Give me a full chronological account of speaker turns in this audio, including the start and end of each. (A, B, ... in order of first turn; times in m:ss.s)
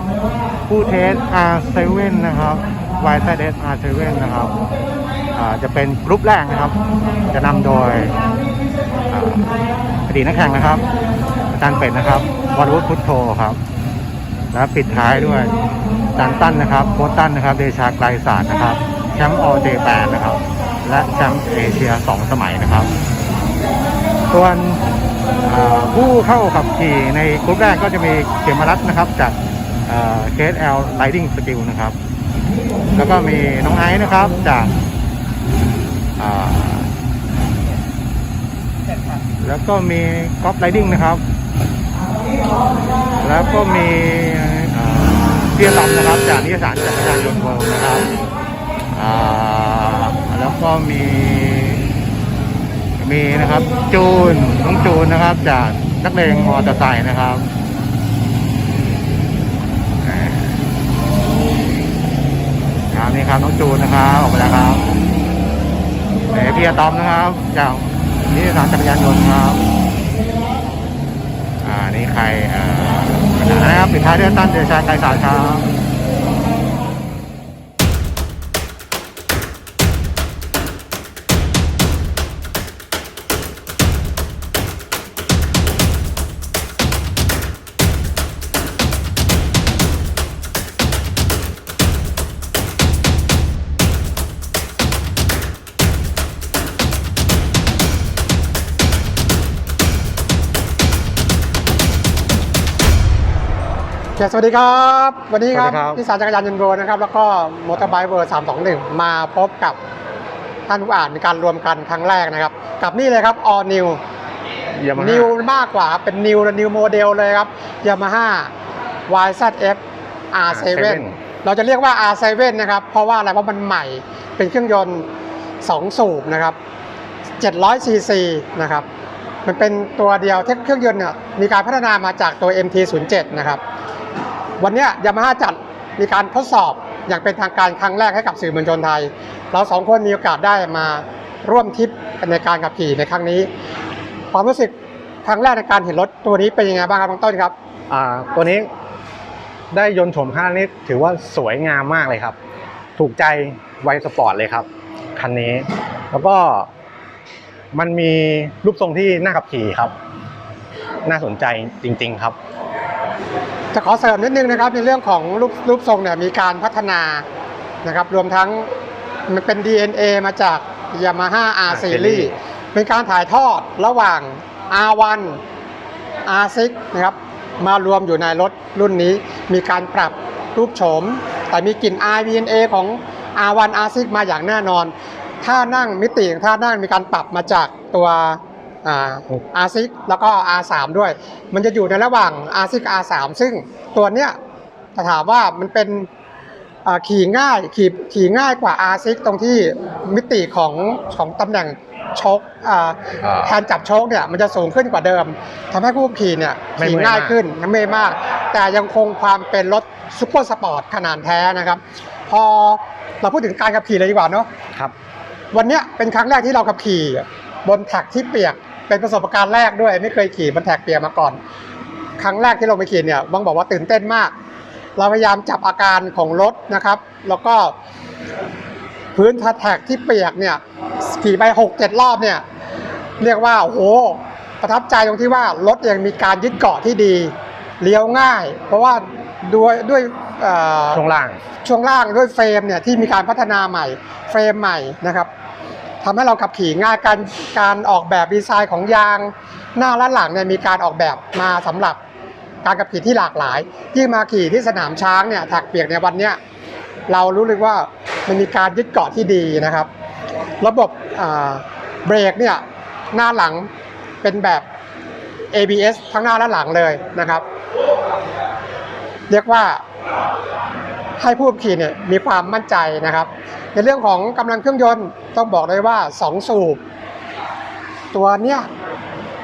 0:00.6-0:04.6 A
0:05.3-0:06.8 A
0:07.3-0:08.2 A
0:09.0-0:09.5 A
0:10.1-0:10.8 A
0:11.5-0:13.6 A
0:14.5-0:15.6 A
0:16.1-0:22.9 A
0:24.3-0:24.8 A
0:25.4-0:32.0 A
0:32.9-0:34.7 A
0:36.2-0:36.9 A
0:39.4-0:41.2 A
0:43.2-0:48.1 A
0:48.9-0:51.9 A
0:53.0-0:57.4 A
1:00.0-1:00.6 A
1:02.9-1:04.8 A
1:06.3-1:09.6 A
1:11.6-1:15.6 A
1:44.2-1:49.8 B
1:45.5-1:46.0 C
1:50.7-1:54.0 B
1:54.8-1:55.3 C
1:54.9-1:58.5 B
1:59.1-1:59.8 B
2:00.3-2:05.1 B
2:00.5-2:01.2 C
2:05.6-2:06.6 B
2:07.4-2:08.8 B
2:09.4-2:13.6 B
2:14.6-2:23.5 B
2:24.3-2:27.5 B
2:27.9-2:28.7 C
2:29.7-2:32.4 C
2:33.0-2:36.7 C
2:37.7-2:39.9 C
2:41.0-2:42.4 C
2:43.7-2:47.2 B
2:47.8-2:48.7 B
2:49.3-2:55.4 B
2:51.7-2:52.3 C
2:56.2-3:14.3 B
3:14.9-3:16.1 B
3:16.8-3:34.5 B
3:23.2-3:23.5 C
3:26.8-3:27.4 C
3:35.5-3:41.4 B
3:42.2-3:44.3 B
3:45.0-3:47.7 B
3:49.1-3:52.4 B
3:53.2-4:01.0 B
4:00.9-4:01.4 C
4:01.6-4:05.3 B
4:06.0-4:12.0 B
4:12.6-4:16.4 B
4:17.1-4:19.9 B
4:20.6-4:23.7 B
4:24.2-4:24.6 B
4:25.5-4:27.4 B
4:29.3-4:29.8 B
4:31.2-4:36.8 B
4:38.1-4:38.7 B